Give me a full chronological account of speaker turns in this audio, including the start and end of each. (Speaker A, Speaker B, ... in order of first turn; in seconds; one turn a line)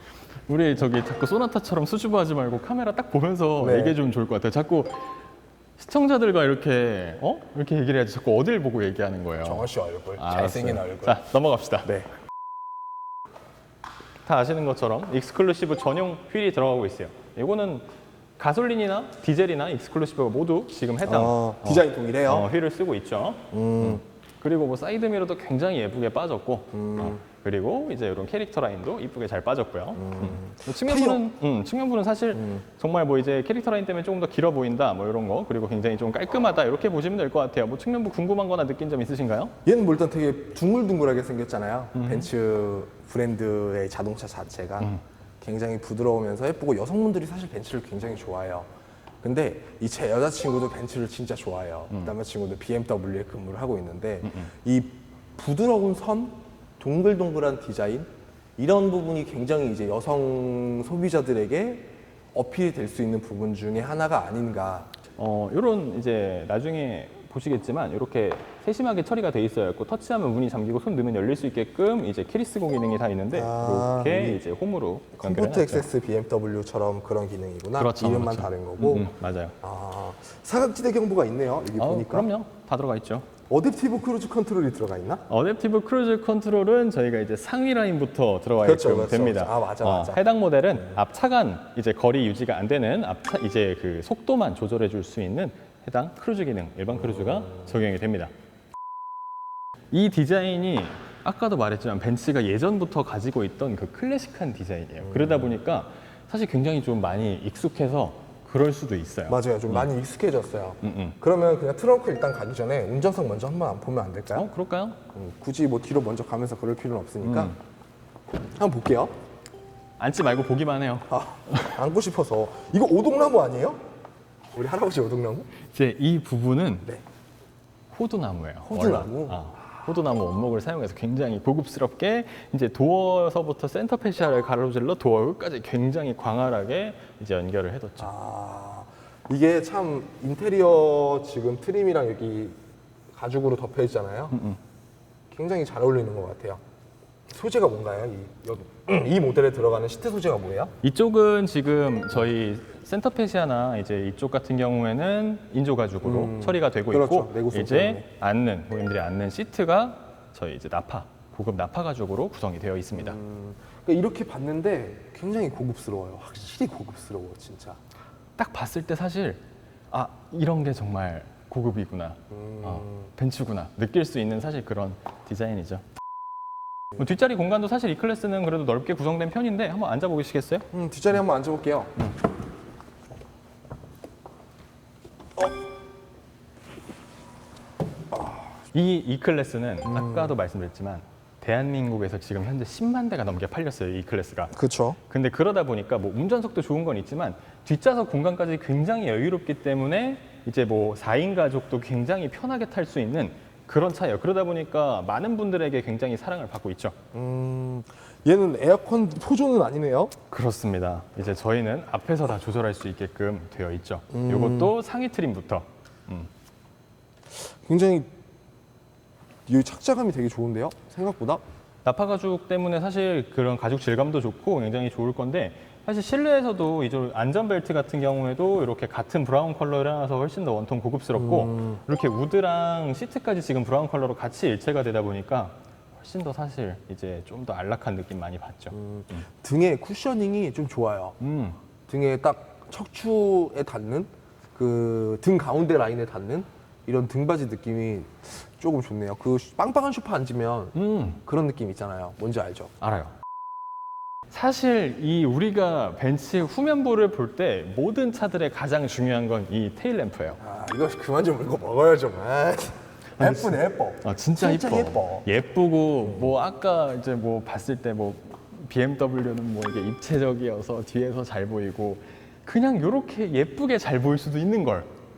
Speaker A: 0.5-5.1
Speaker B: 3.6-4.0
Speaker A: 5.8-9.7
Speaker B: 9.4-11.2
Speaker A: 10.2-11.9
Speaker A: 14.2-17.9
Speaker A: 18.4-39.5
Speaker B: 21.0-22.5
Speaker B: 23.5-24.0
Speaker B: 26.7-27.2
Speaker B: 30.0-31.2
Speaker B: 32.3-32.6
Speaker B: 39.6-48.7
Speaker A: 42.0-42.3
Speaker B: 49.2-64.9
Speaker A: 65.2-75.8
Speaker B: 73.3-74.4
Speaker B: 75.2-79.1
Speaker A: 77.8-79.5
Speaker B: 79.6-82.3
Speaker A: 81.8-83.3
Speaker B: 83.5-85.3
Speaker A: 85.3-98.3
Speaker B: 88.6-90.2
Speaker B: 97.2-97.6
Speaker A: 99.9-109.9
Speaker B: 105.0-105.6
Speaker B: 109.3-114.5
Speaker A: 110.8-111.2
Speaker A: 114.3-115.0
Speaker B: 115.1-117.6
Speaker A: 117.2-117.6
Speaker B: 118.5-119.1
Speaker A: 120.0-121.7
Speaker B: 121.1-123.8
Speaker B: 124.5-125.5
Speaker A: 125.7-126.9
Speaker A: 127.9-138.1
Speaker B: 128.7-129.5
Speaker B: 138.0-142.6
Speaker B: 143.1-144.4
Speaker A: 144.3-144.6
Speaker B: 145.3-146.6
Speaker B: 147.3-150.7
Speaker A: 150.8-163.2
Speaker B: 156.0-158.1
Speaker B: 162.9-167.8
Speaker A: 168.4-175.8
Speaker B: 172.3-173.1
Speaker A: 176.9-180.7
Speaker B: 180.7-181.9
Speaker A: 188.7-194.6
Speaker B: 189.9-190.3
Speaker B: 194.5-195.0
Speaker A: 195.1-207.0
Speaker B: 207.1-210.2
Speaker A: 210.3-216.3
Speaker B: 214.1-214.7
Speaker B: 217.3-218.1
Speaker B: 219.5-221.4
Speaker A: 221.8-239.2
Speaker B: 231.2-231.8
Speaker B: 238.7-241.2
Speaker A: 241.2-241.6
Speaker B: 241.9-252.7
Speaker A: 250.8-251.2
Speaker A: 252.8-253.1
Speaker A: 254.3-260.4
Speaker B: 260.4-265.3
Speaker A: 263.2-274.9
Speaker B: 266.0-266.3